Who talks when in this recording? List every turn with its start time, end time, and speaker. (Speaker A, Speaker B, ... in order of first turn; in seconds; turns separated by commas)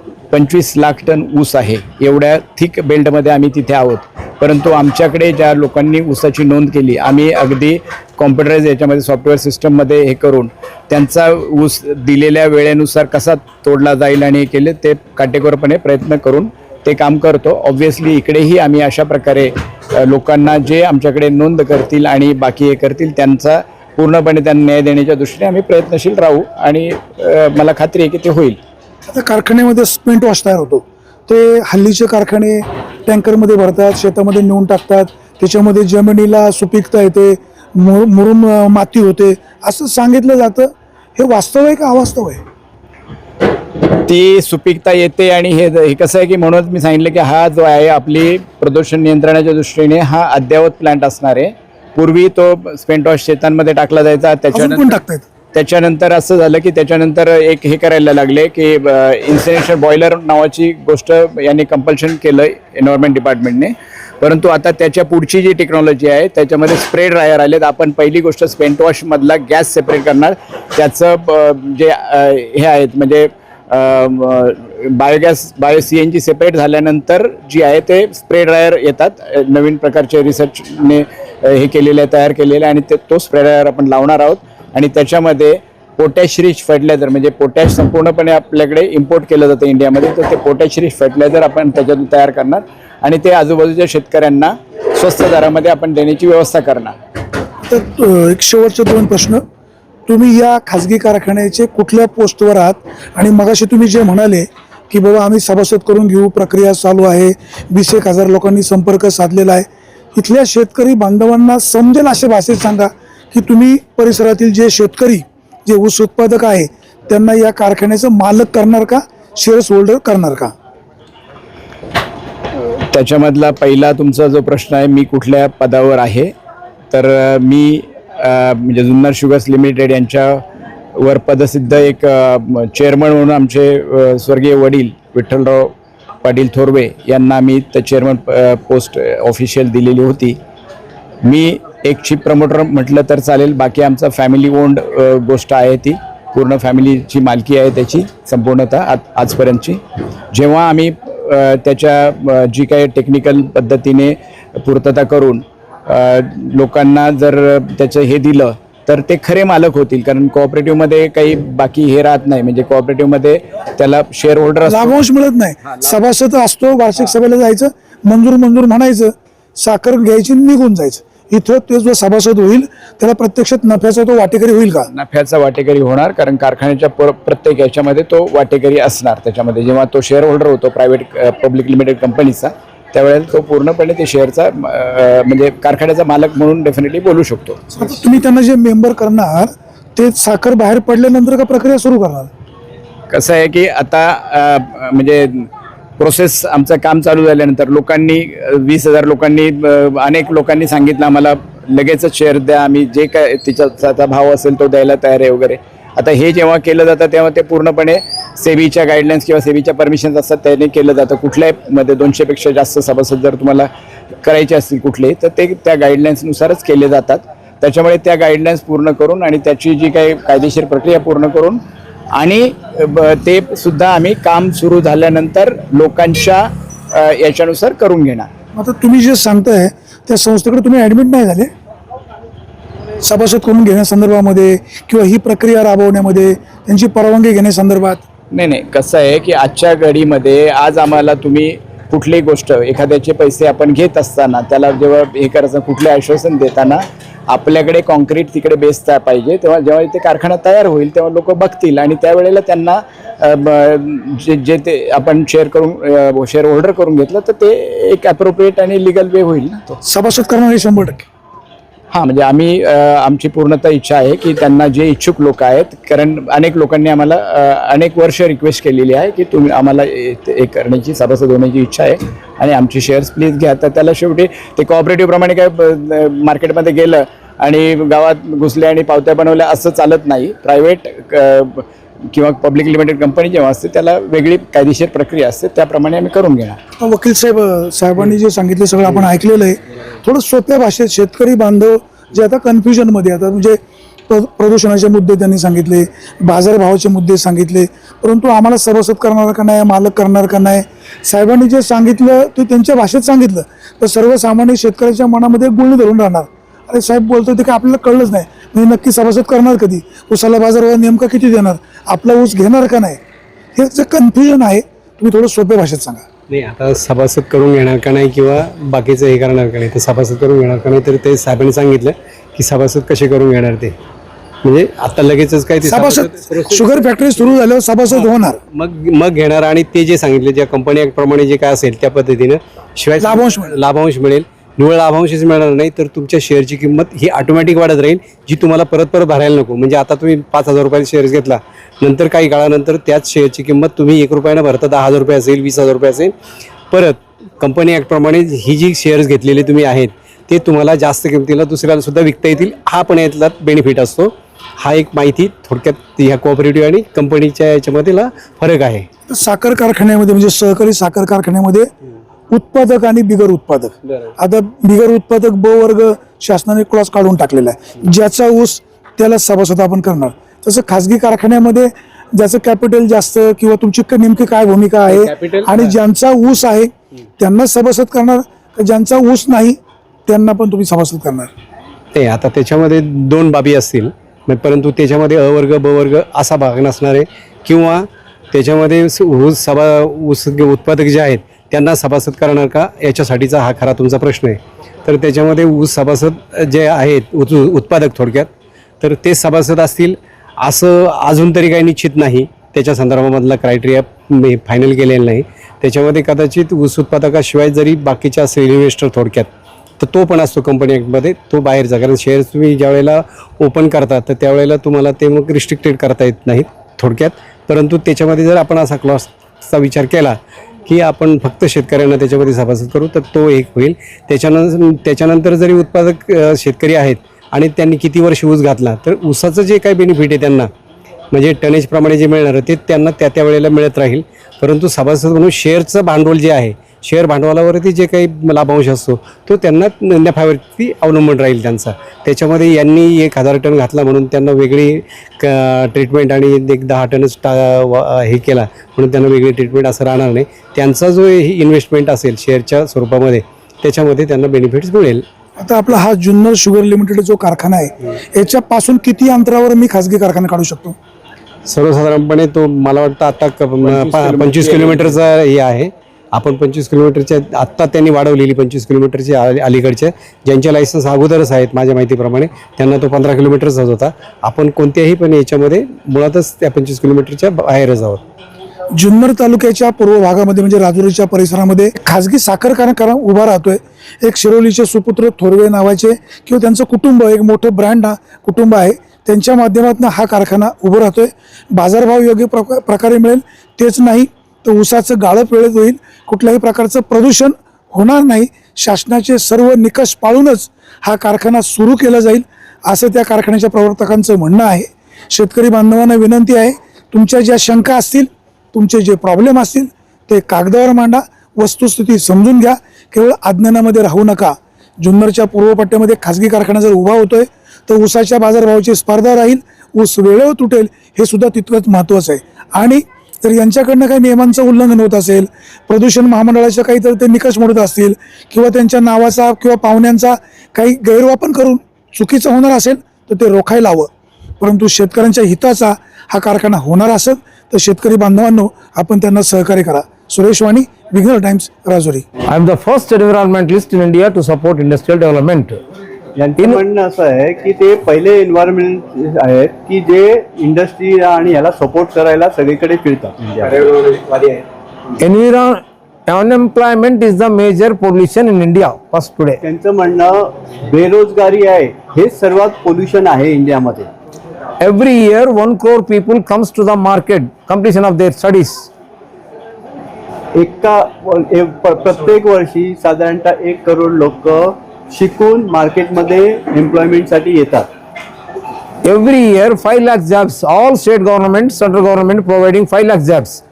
Speaker A: 0.3-28.6, Speaker B: 29.1-42.4, Speaker A: 44.0-55.0, Speaker B: 54.5-55.2, Speaker A: 55.5-96.9, Speaker B: 97.7-99.4, Speaker B: 100.1-120.5, Speaker A: 122.6-126.3, Speaker A: 126.9-130.4, Speaker A: 130.9-140.4, Speaker A: 141.2-165.0, Speaker B: 164.6-174.9, Speaker A: 174.9-187.7, Speaker B: 187.7-192.3, Speaker A: 193.1-213.7, Speaker A: 214.2-221.6, Speaker A: 222.1-228.3, Speaker B: 228.6-231.5, Speaker B: 233.0-238.0, Speaker A: 238.3-259.8, Speaker B: 259.8-261.1, Speaker A: 261.9-286.6, Speaker B: 286.8-313.0, Speaker B: 313.6-316.0, Speaker C: 316.3-323.8, Speaker C: 324.4-326.8, Speaker B: 325.6-328.4, Speaker C: 327.9-346.1, Speaker B: 333.0-333.5, Speaker C: 346.7-358.9, Speaker B: 359.1-361.7, Speaker B: 362.3-381.3, Speaker C: 374.9-375.7, Speaker C: 381.9-398.3, Speaker C: 398.8-430.5, Speaker C: 431.1-455.0, Speaker B: 455.4-460.8, Speaker C: 461.4-478.0, Speaker A: 463.6-465.0, Speaker B: 478.8-542.0, Speaker D: 542.3-545.6, Speaker E: 546.2-553.7, Speaker A: 553.7-554.4, Speaker D: 555.0-559.4, Speaker E: 559.4-563.9, Speaker D: 564.6-568.7, Speaker E: 570.4-577.7, Speaker D: 578.8-583.4